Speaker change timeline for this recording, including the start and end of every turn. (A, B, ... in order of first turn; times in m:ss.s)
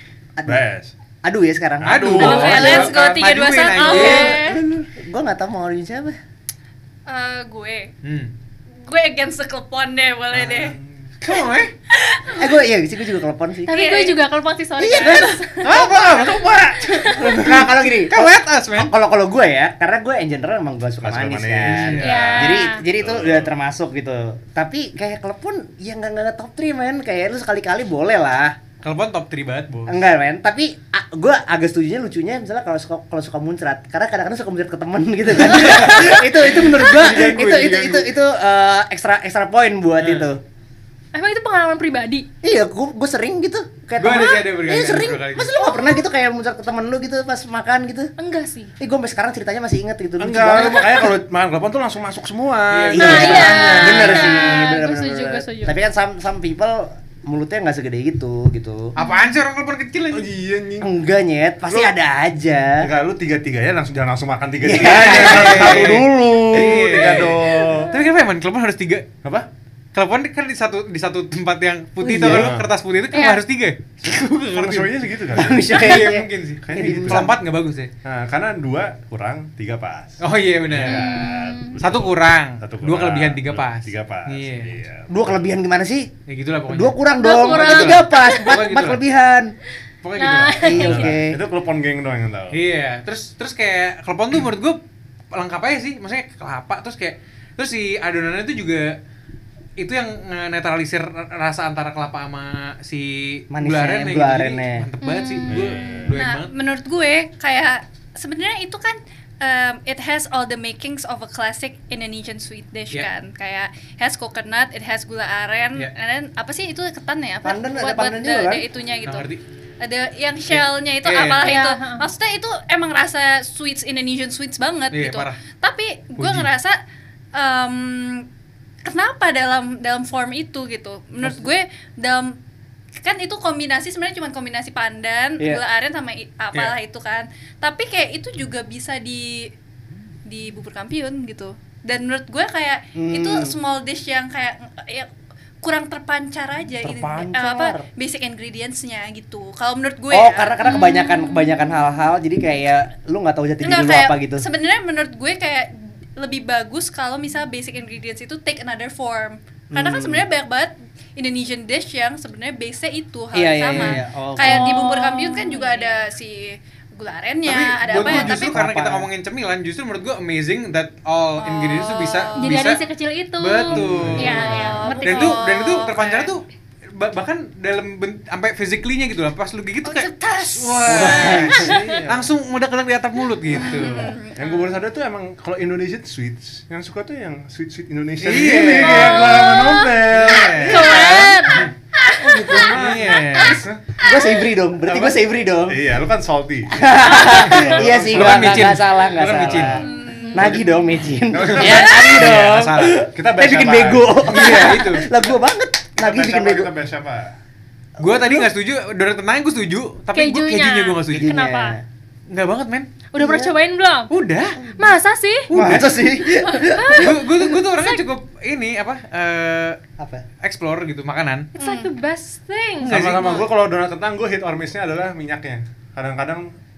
0:00.4-0:00.6 A
0:00.5-0:00.9 B
0:01.2-0:03.0 A
0:01.8-0:02.9 B
0:01.8-0:04.4 C
0:02.2-0:04.6 D
0:03.8-0:06.2 A
0:03.9-0:04.3 E
0:07.0-0:07.9 D
0:08.0-0:08.3 C
0:08.8-0:10.8 D
0:10.3-0:11.1 B
0:11.2-0:11.7 C
0:11.9-0:12.5 D
0:12.4-0:13.8 A
0:13.6-0:15.7 E
0:13.7-0:14.2 D
0:14.8-0:16.0 A
0:15.6-0:18.9 C
0:15.7-0:17.7 B
0:17.1-0:28.6 A
0:21.0-0:23.5 B
0:21.6-0:22.6 C
0:22.0-0:22.8 E
0:28.8-0:30.0 C
0:29.9-0:40.4 A
0:35.5-0:38.0 C
0:40.0-0:40.3 C
0:41.1-0:42.2 E
0:42.4-0:48.1 A
0:44.0-0:45.5 C
0:45.6-0:45.9 E
0:48.2-0:48.7 E
0:48.8-0:51.1 A
0:50.2-0:53.6 B
0:52.7-0:54.3 C
0:52.9-0:58.9 A
0:52.9-0:55.8 E
0:59.0-1:00.3 C
0:59.0-0:59.3 E
1:00.1-1:00.9 B
1:00.8-1:02.9 A
1:01.7-1:01.9 B
1:02.8-1:07.9 B
1:04.6-1:07.4 A
1:04.8-1:09.1 C
1:09.9-1:15.0 C
1:12.0-1:12.6 A
1:12.1-1:12.7 B
1:13.1-1:13.4 E
1:14.5-1:16.1 B
1:15.3-1:17.4 A
1:15.7-1:17.9 C
1:16.6-1:17.4 B
1:18.0-1:25.5 B
1:20.2-1:21.2 C
1:20.8-1:21.8 E
1:21.8-1:24.7 C
1:25.1-1:26.1 A
1:26.3-1:29.0 C
1:26.7-1:29.5 A
1:27.2-1:28.6 E
1:30.0-1:31.0 C
1:30.2-1:31.0 E
1:30.6-1:31.4 A
1:30.8-1:32.6 B
1:32.5-1:34.8 C
1:35.3-1:39.0 C
1:39.8-1:46.5 C
1:43.5-1:44.8 A
1:45.0-1:46.1 E
1:45.5-1:46.2 B
1:46.1-1:59.3 D
1:57.4-1:58.6 A
1:59.0-1:59.4 C
1:59.8-2:06.8 D
2:00.5-2:01.5 C
2:01.4-2:02.0 E
2:04.9-2:05.4 C
2:06.2-2:06.5 C
2:07.3-2:08.3 D
2:08.8-2:12.4 D
2:13.0-2:19.5 D
2:20.2-2:25.1 D
2:22.9-2:23.6 A
2:25.6-2:30.5 D
2:26.8-2:27.8 A
2:30.1-2:34.4 A
2:30.6-2:31.7 E
2:33.6-2:48.6 D
2:39.7-2:40.2 A
2:43.3-2:44.8 A
2:43.7-2:44.0 C
2:44.4-2:45.9 E
2:47.4-2:52.8 C
2:47.9-2:49.1 A
2:51.4-2:52.7 D
2:52.4-2:55.4 E
2:53.4-3:04.2 C
2:53.7-2:54.8 B
2:54.4-2:56.4 D
2:59.8-3:01.6 D
3:00.9-3:01.8 A
3:01.2-3:02.3 B
3:03.5-3:04.8 D
3:04.4-3:11.1 B
3:08.2-3:09.4 C
3:08.8-3:09.9 E
3:09.2-3:09.7 D
3:10.1-3:11.7 C
3:10.6-3:12.6 E
3:11.0-3:11.6 D
3:12.2-3:12.9 A
3:12.4-3:12.6 D
3:12.5-3:13.8 B
3:12.6-3:13.6 C
3:13.3-3:13.6 E
3:14.0-3:15.8 A
3:14.8-3:18.8 B
3:16.7-3:19.8 A
3:17.3-3:19.8 C
3:19.3-3:19.8 B
3:19.8-3:20.5 D
3:20.0-3:20.6 E
3:20.3-3:26.7 A
3:20.4-3:20.7 B
3:21.3-3:22.5 B
3:21.4-3:23.0 C
3:23.1-3:24.4 B
3:24.2-3:25.1 C
3:26.0-3:27.3 B
3:28.0-3:28.5 A
3:28.0-3:31.3 C
3:30.1-3:31.7 E
3:31.1-3:31.8 A
3:32.3-3:32.9 C
3:33.1-3:34.1 E
3:33.2-3:33.5 A
3:34.1-3:34.6 C
3:34.6-3:34.9 A
3:34.8-3:35.5 E
3:35.5-3:36.0 C
3:35.5-3:37.6 A
3:36.2-3:38.0 E
3:36.9-3:39.8 C
3:40.0-3:40.2 A
3:40.4-3:41.5 C
3:41.5-3:42.9 E
3:41.6-3:41.9 D
3:42.8-3:43.5 C
3:42.9-3:46.5 B